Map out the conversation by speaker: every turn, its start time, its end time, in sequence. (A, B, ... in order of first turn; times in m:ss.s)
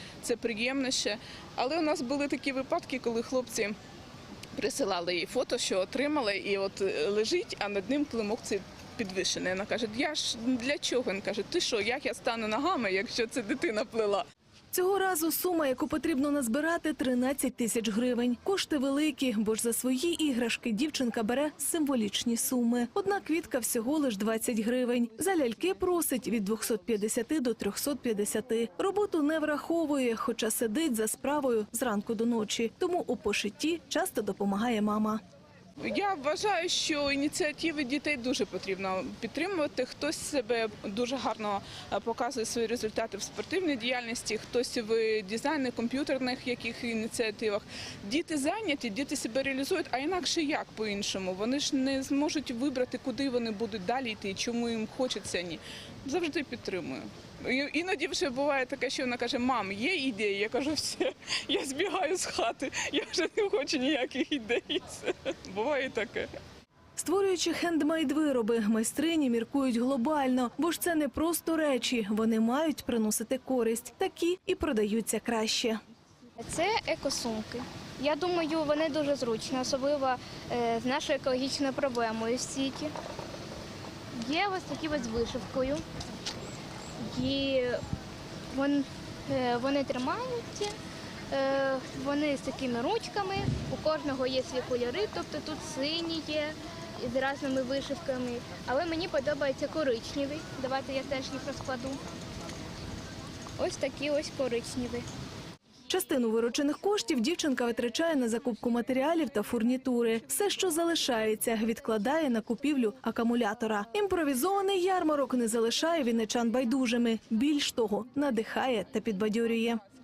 0:00.2-0:03.7 A
0:04.6-0:14.2 A
0:14.7-0:35.2 B
0:35.8-1:06.3 A
1:07.0-1:15.8 B
1:16.4-1:22.9 C
1:24.1-1:25.8 C
1:27.0-1:27.8 C
1:28.5-1:30.8 C
1:31.3-1:42.0 C
1:43.6-1:45.0 C
1:45.9-1:59.8 B